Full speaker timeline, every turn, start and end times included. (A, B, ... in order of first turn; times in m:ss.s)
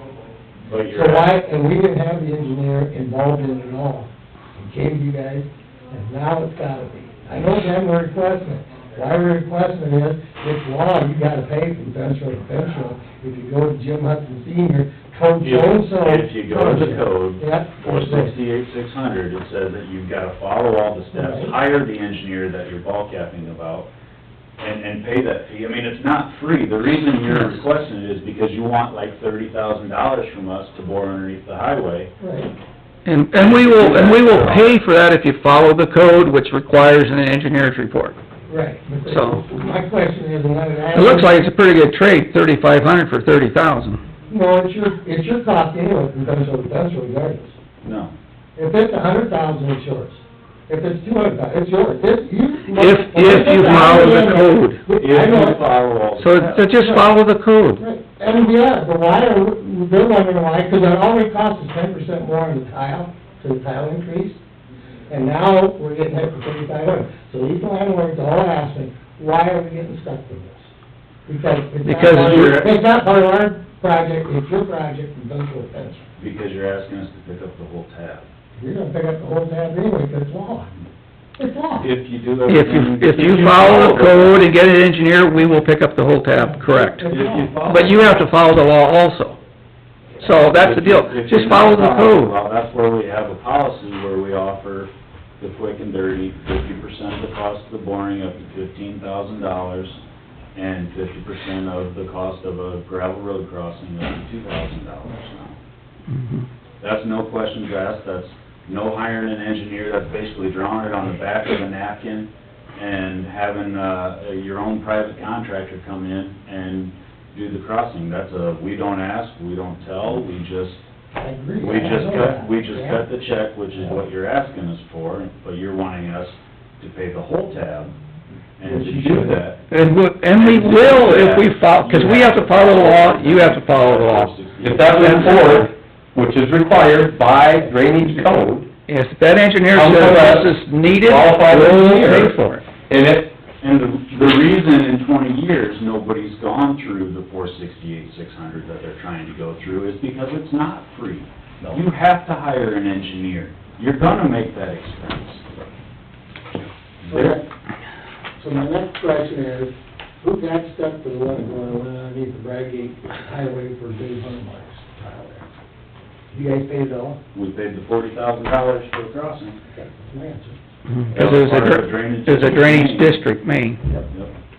0:00.7-0:01.3 A
0:00.9-0:18.4 B
0:15.4-0:23.9 A
0:21.1-0:21.6 B
0:24.6-0:32.1 A
0:32.2-0:32.5 B
0:33.0-0:38.2 C
0:33.3-0:34.8 A
0:38.5-0:41.5 B
0:39.0-0:39.4 C
0:40.9-0:44.0 C
0:44.3-0:47.6 B
0:47.8-0:48.1 A
0:48.6-0:55.7 B
0:52.7-0:54.8 C
0:55.0-0:56.6 A
0:56.2-0:57.8 C
0:56.4-0:57.1 B
0:57.8-1:04.4 B
1:05.1-1:10.7 B
1:11.2-1:16.0 B
1:11.8-1:12.7 C
1:12.2-1:12.6 A
1:16.2-1:18.3 A
1:18.6-1:20.7 B
1:21.4-1:21.9 B
1:21.8-1:24.5 A
1:22.4-1:29.4 C
1:26.3-1:27.6 B
1:27.0-1:28.2 A
1:30.2-1:32.4 C
1:30.2-1:40.0 A
1:40.5-1:45.6 A
1:46.1-1:46.4 C
1:46.8-2:00.8 A
2:01.1-2:03.0 B
2:01.6-2:07.9 A
2:08.6-2:09.6 A
2:08.6-2:09.4 B
2:09.7-2:14.3 C
2:10.4-2:15.7 A
2:14.6-2:18.7 D
2:14.9-2:15.6 C
2:18.9-2:22.6 C
2:19.7-2:22.3 D
2:22.9-2:23.3 D
2:23.6-2:35.5 A
2:36.5-2:37.4 A
2:37.1-2:37.4 B
2:38.4-2:45.5 B
2:46.3-2:47.2 B
2:47.3-2:49.6 A
2:49.7-2:50.6 B
2:50.9-2:53.8 C
2:51.1-2:53.2 A